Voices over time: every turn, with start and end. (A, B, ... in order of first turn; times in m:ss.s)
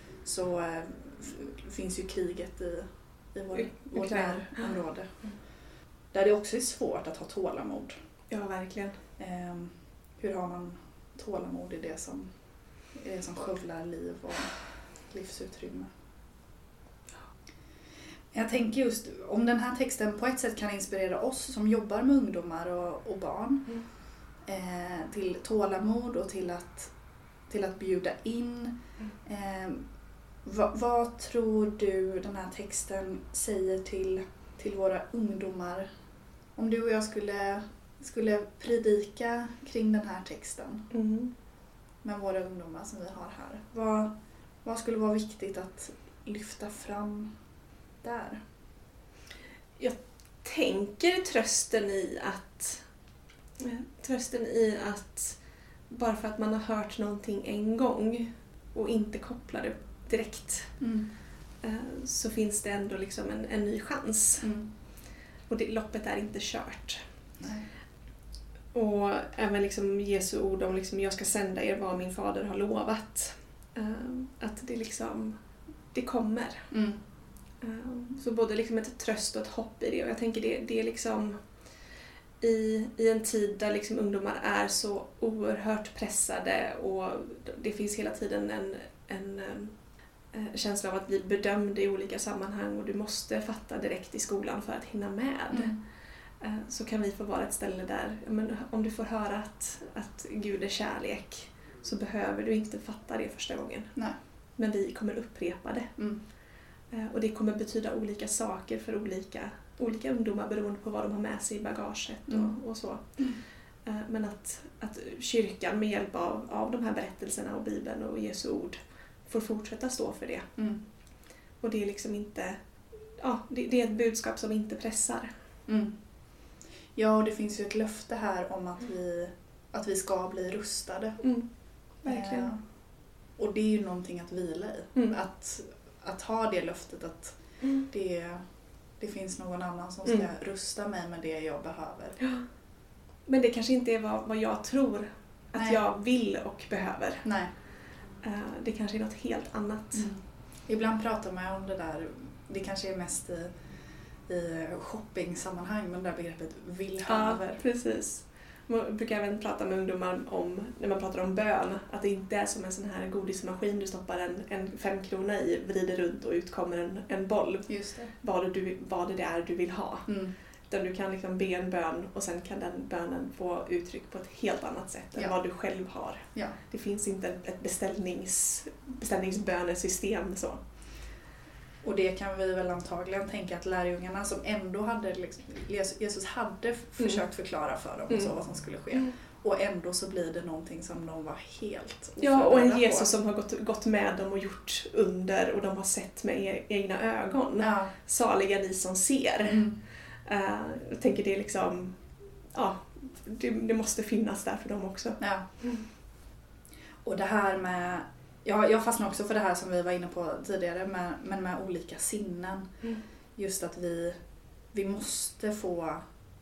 0:00.2-0:05.1 A
0:03.5-0:04.8 B
0:06.1-0:07.9 A
0:08.3-0:09.0 B
0:09.2-0:12.3 A
0:12.9-0:15.9 A
0:18.3-0:23.8 A
0:24.4-0:26.9 A
0:27.5-0:29.9 A
0:30.4-0:35.9 A
0:36.6-0:40.9 A
0:40.9-0:41.3 B
0:42.0-0:44.1 A
0:44.6-0:47.3 A
0:48.0-0:48.4 A
0:49.8-0:52.8 B
0:53.6-1:00.8 B
1:00.8-1:01.1 A
1:01.6-1:04.5 B
1:04.4-1:04.7 A
1:05.5-1:07.0 B
1:07.4-1:07.6 A
1:08.7-1:16.7 B
1:16.7-1:17.0 A
1:17.6-1:21.5 B
1:22.4-1:29.7 B
1:30.3-1:46.3 B
1:35.5-1:35.8 A
1:46.0-1:46.2 A
1:46.9-2:00.5 B
1:52.3-1:52.5 A
2:01.6-2:05.3 B
2:05.7-2:06.0 A
2:06.9-2:11.3 A
2:11.2-2:12.5 B
2:12.0-2:12.7 A
2:13.4-2:18.4 A
2:19.0-2:22.2 A
2:23.2-2:27.3 B
2:25.5-2:25.8 A
2:27.2-2:27.5 A
2:28.2-2:30.1 B
2:29.9-2:33.5 A
2:34.2-2:37.6 A
2:37.1-3:00.6 B
2:47.7-2:48.1 A
2:50.1-2:50.3 A
2:56.3-2:56.6 A
3:01.8-3:13.1 A
3:12.2-3:25.8 B
3:17.6-3:17.9 A
3:19.4-3:19.8 A
3:25.2-3:25.4 A
3:27.0-3:32.7 A
3:33.4-3:36.0 A